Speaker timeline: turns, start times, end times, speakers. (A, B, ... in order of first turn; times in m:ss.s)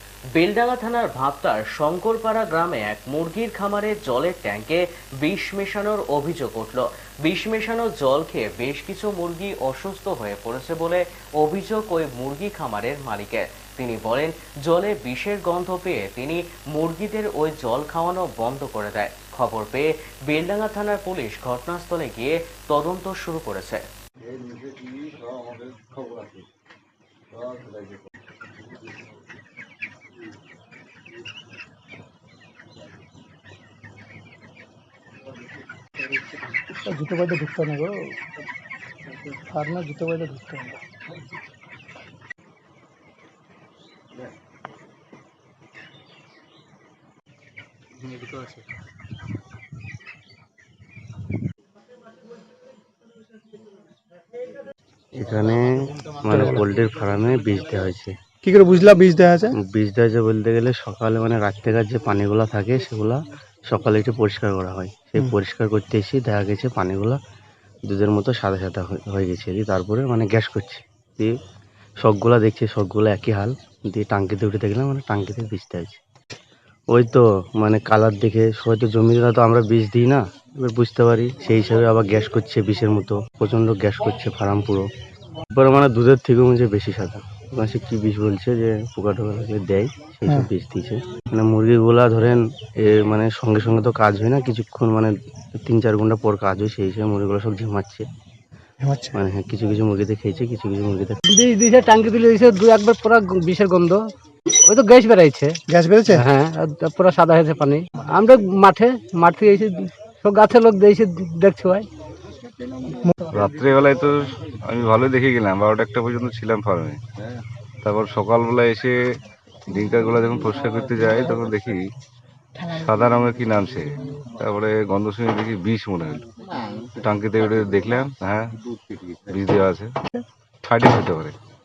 0:00.4-0:23.8 A
0:36.8-0:37.9 B
0:39.5-0:40.7 B
0:55.2-0:55.6 C
0:56.2-0:58.1 C
0:56.3-0:56.6 B
0:58.4-0:59.5 B
0:59.6-1:07.2 C
1:07.9-1:11.3 C
1:12.0-1:16.0 C
1:16.9-1:24.8 C
1:25.5-1:35.1 C
1:35.6-1:38.0 C
1:38.8-1:39.2 B
1:39.1-1:41.2 C
1:41.3-1:44.0 D
1:44.6-1:45.6 D
1:45.7-1:46.3 B
1:46.1-1:51.9 D
1:53.3-1:57.0 E
1:57.8-1:59.0 E
1:59.7-2:01.8 E
2:02.6-2:06.2 E
2:06.9-2:08.5 E
2:09.2-2:09.9 E
2:10.6-2:11.3 E